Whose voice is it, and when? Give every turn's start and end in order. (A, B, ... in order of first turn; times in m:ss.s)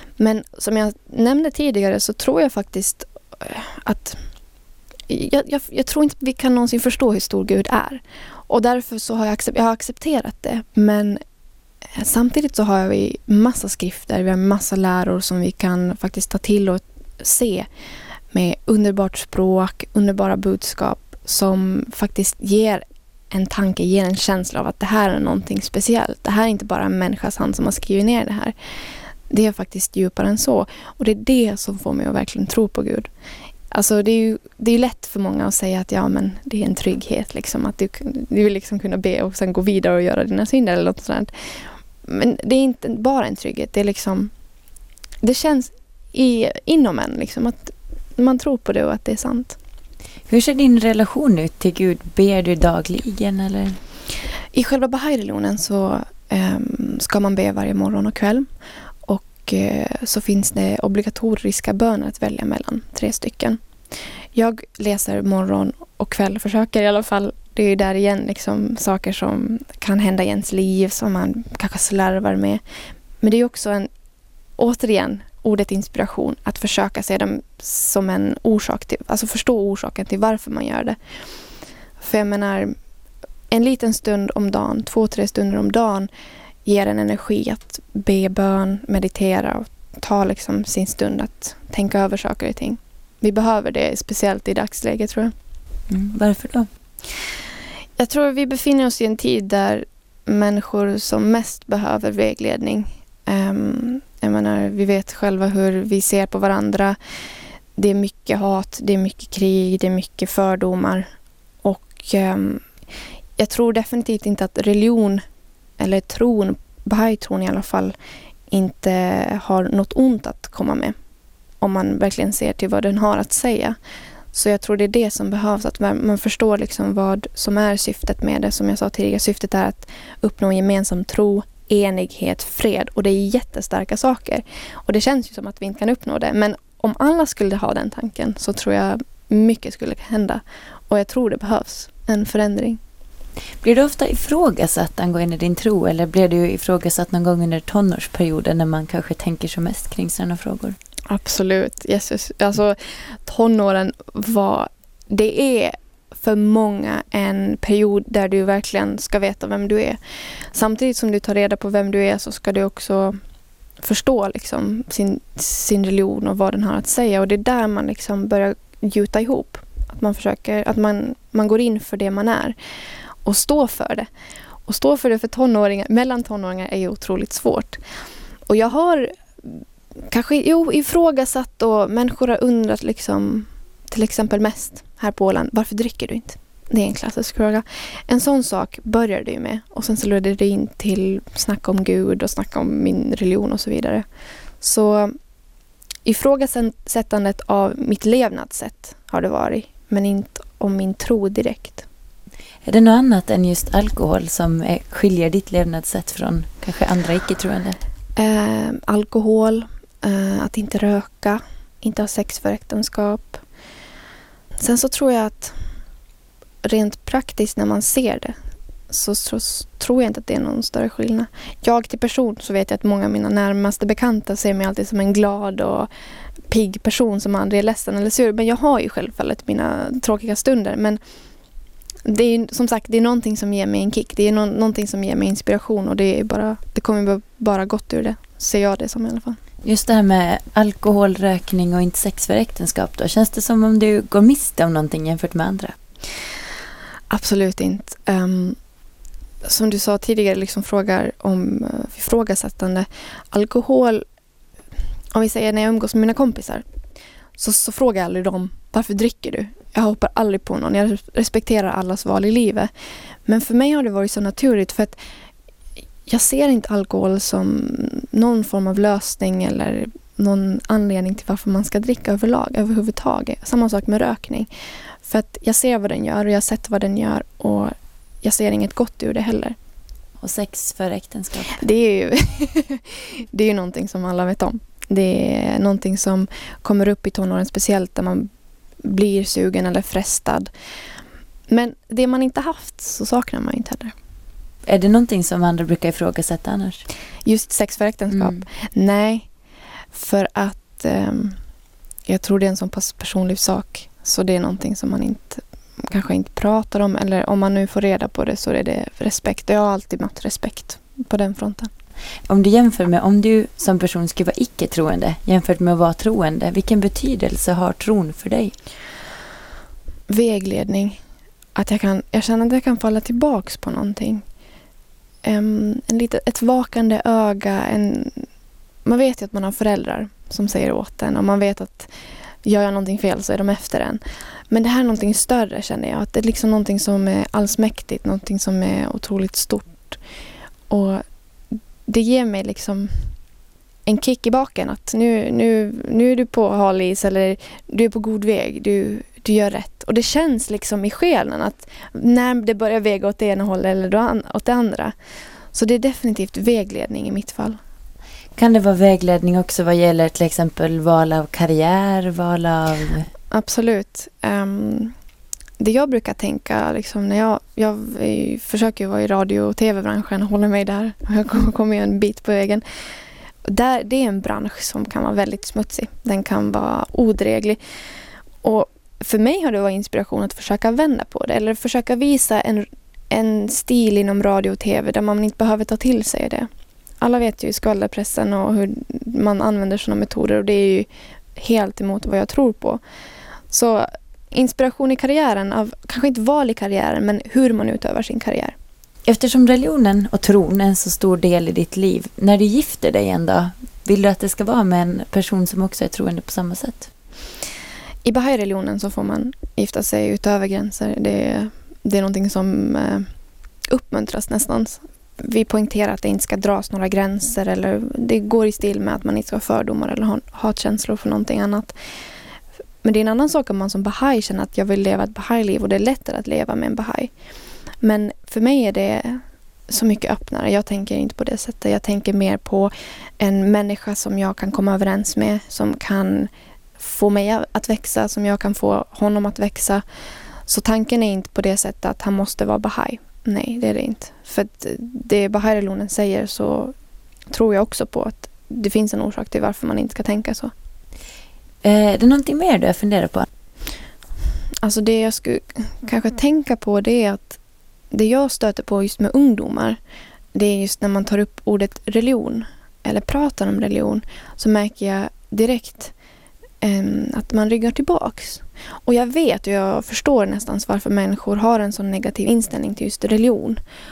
0:00.2-0:04.2 A
0:05.1-0:11.2 A
0:11.9-0:17.7 A
0:18.3-0:28.5 A
0:29.3-0:33.1 A
0:33.7-0:44.3 A
0:45.2-0:49.6 A
0:50.3-0:53.8 B
0:54.5-0:58.5 A
0:59.0-1:03.6 A
1:04.3-1:12.6 A
1:13.2-1:13.9 A
1:14.6-1:21.0 A
1:22.0-1:22.8 A
1:23.5-1:26.1 A
1:26.6-1:35.3 A
1:35.9-1:36.7 B
1:38.0-1:47.0 A
1:47.8-1:51.1 A
1:51.6-1:52.6 A
1:53.4-1:55.2 A
1:55.8-1:58.0 A
1:58.5-2:01.0 A
2:01.6-2:03.8 A
2:04.3-2:22.8 A
2:23.6-2:30.8 B
2:31.1-2:43.2 A
2:43.8-2:52.6 A
2:53.2-2:54.1 A
2:54.7-2:57.8 A
2:58.5-3:14.0 A
3:14.6-3:15.2 A
3:16.0-3:21.8 A
3:22.6-3:27.8 B
3:28.2-3:33.4 A
3:34.6-3:35.6 A
3:36.6-3:38.4 A
3:38.9-3:45.9 A
3:46.5-3:51.0 A
3:52.0-3:59.4 A
3:59.6-4:05.8 B
4:07.1-4:08.6 A
4:09.4-4:14.0 A
4:15.1-4:16.6 A
4:17.4-4:22.7 A
4:23.2-4:25.0 A
4:26.1-4:34.5 A
4:35.0-4:39.6 A
4:40.2-4:41.6 B
4:41.6-4:48.3 A
4:48.8-4:50.5 A
4:51.5-4:53.9 A
4:54.7-4:56.8 B
4:57.2-4:59.3 A
4:58.1-4:58.4 B
4:59.9-5:01.4 A
5:02.1-5:11.7 A
5:12.3-5:18.5 B
5:20.1-5:21.0 A
5:21.5-5:24.2 A
5:25.2-5:28.3 A
5:28.8-5:31.9 A
5:32.4-5:40.0 A
5:40.7-5:43.1 A
5:43.8-5:54.9 A
5:55.5-5:57.6 A
5:58.4-6:03.1 B
6:03.3-6:05.0 A
6:05.6-6:12.6 A
6:13.4-6:17.6 A
6:18.4-6:26.5 A
6:27.0-6:32.8 A
6:33.5-6:38.5 A
6:39.1-6:46.9 B
6:48.0-6:53.1 A
6:53.7-7:01.7 A
7:02.8-7:07.1 A
7:07.8-7:19.8 A
7:20.4-7:26.7 A
7:27.3-7:30.5 A
7:31.6-7:33.3 B
7:34.6-7:37.4 A
7:37.9-7:39.8 A
7:40.3-7:45.9 A
7:46.6-7:53.6 A